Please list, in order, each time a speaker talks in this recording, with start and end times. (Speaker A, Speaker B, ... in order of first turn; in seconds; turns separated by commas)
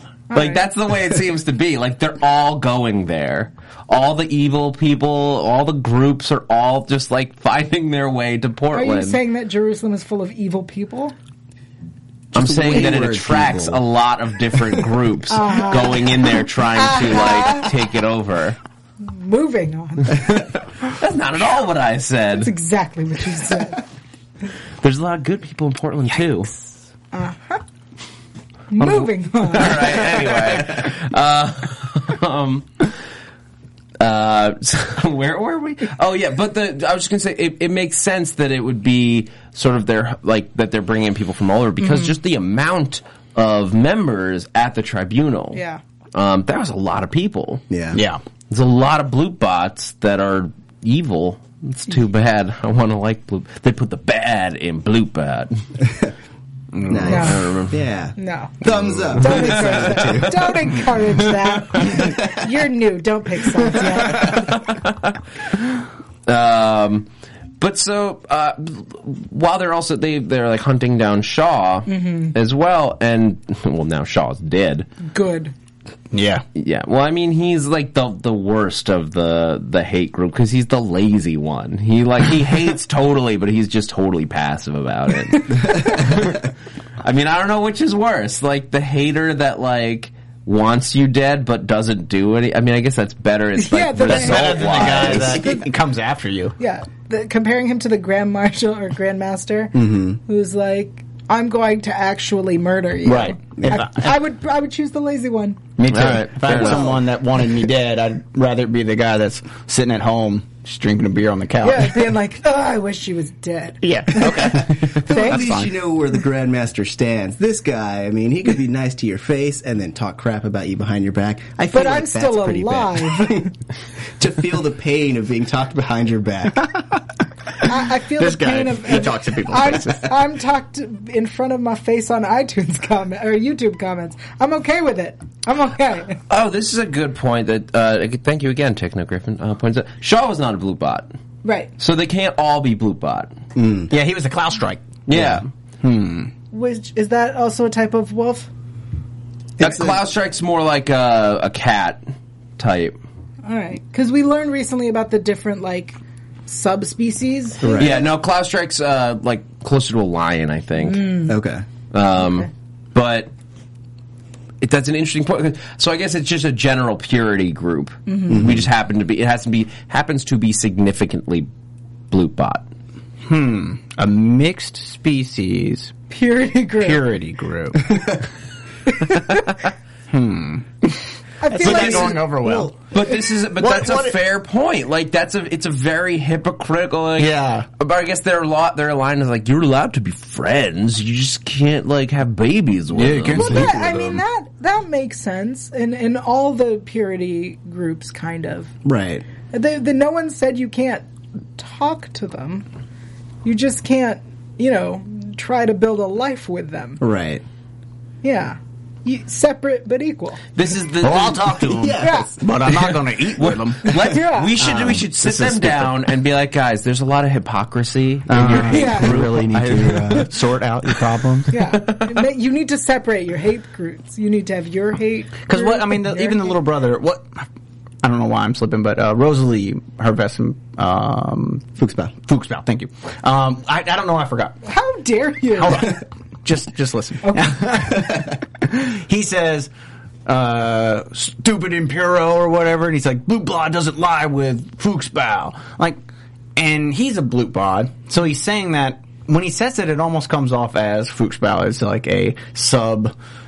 Speaker A: 0.3-0.7, Speaker B: 0.3-9.2, Speaker A: 8.7-11.2, Speaker C: 12.3-13.8, Speaker B: 12.3-18.6, Speaker A: 15.3-17.7, Speaker A: 19.0-20.4, Speaker B: 20.1-22.5, Speaker A: 22.4-23.8, Speaker B: 24.8-26.5, Speaker A: 27.1-27.6, Speaker A: 28.7-30.1, Speaker B: 28.8-32.9, Speaker B: 34.0-45.6, Speaker A: 41.8-42.1, Speaker A: 45.5-45.8, Speaker B: 46.1-47.6, Speaker C: 47.7-48.0, Speaker D: 47.9-48.2, Speaker B: 48.5-55.6, Speaker D: 56.7-57.3, Speaker C: 56.9-60.6, Speaker A: 57.1-57.4, Speaker B: 57.1-57.8, Speaker A: 58.2-58.5, Speaker B: 59.2-62.0, Speaker A: 59.2-64.5, Speaker B: 64.1-65.2, Speaker B: 66.3-67.1, Speaker B: 67.6-74.9, Speaker A: 71.9-72.3, Speaker A: 75.0-75.5, Speaker D: 76.1-76.4, Speaker B: 76.5-86.5, Speaker A: 85.3-86.1, Speaker B: 87.0-95.5, Speaker A: 93.6-95.6, Speaker D: 94.1-96.5, Speaker A: 96.6-105.6, Speaker C: 99.7-100.2, Speaker D: 103.0-104.1, Speaker D: 105.8-112.1, Speaker B: 105.9-107.0, Speaker C: 106.5-107.0, Speaker A: 111.6-115.5, Speaker D: 113.8-115.7, Speaker C: 114.5-123.5, Speaker A: 121.7-123.5, Speaker C: 124.2-126.8, Speaker A: 127.6-136.2, Speaker D: 128.2-130.1, Speaker B: 136.3-141.1, Speaker A: 141.4-141.7, Speaker B: 141.8-143.3, Speaker C: 143.6-143.9, Speaker D: 143.9-144.9, Speaker B: 145.1-145.5, Speaker C: 145.1-145.4, Speaker D: 145.8-146.3, Speaker A: 146.5-148.5, Speaker C: 149.6-150.0, Speaker B: 149.6-152.0, Speaker B: 152.6-153.0, Speaker A: 153.4-157.9, Speaker C: 157.6-158.1, Speaker B: 157.7-161.2, Speaker A: 160.8-161.4, Speaker C: 161.3-161.7, Speaker B: 161.9-163.3, Speaker A: 162.2-162.5, Speaker B: 164.6-171.5, Speaker A: 168.1-168.4, Speaker C: 168.3-168.7, Speaker B: 172.1-172.7, Speaker D: 173.2-175.9, Speaker A: 176.1-177.0, Speaker D: 176.8-178.1, Speaker D: 180.1-182.8, Speaker A: 181.4-182.3, Speaker C: 181.6-182.7, Speaker B: 182.9-193.8, Speaker D: 183.6-184.2, Speaker D: 187.2-187.7, Speaker D: 192.9-193.7, Speaker A: 193.3-198.7, Speaker C: 198.8-199.3, Speaker A: 199.5-201.1, Speaker A: 201.6-202.7, Speaker A: 203.4-207.0, Speaker C: 207.0-207.4, Speaker A: 208.2-210.4, Speaker B: 210.6-211.7, Speaker D: 211.0-214.1, Speaker C: 211.7-212.5, Speaker A: 212.0-212.3, Speaker B: 212.9-220.3, Speaker A: 213.8-214.5, Speaker D: 214.6-215.9, Speaker C: 214.6-215.0, Speaker C: 218.3-220.3, Speaker D: 218.3-221.5, Speaker A: 218.7-219.2, Speaker A: 221.5-226.6, Speaker B: 221.7-222.1, Speaker D: 225.4-227.4, Speaker D: 228.0-234.6, Speaker C: 231.8-232.1, Speaker A: 234.6-236.0, Speaker D: 235.5-239.7, Speaker A: 237.2-237.5, Speaker D: 240.2-246.0, Speaker D: 246.6-253.1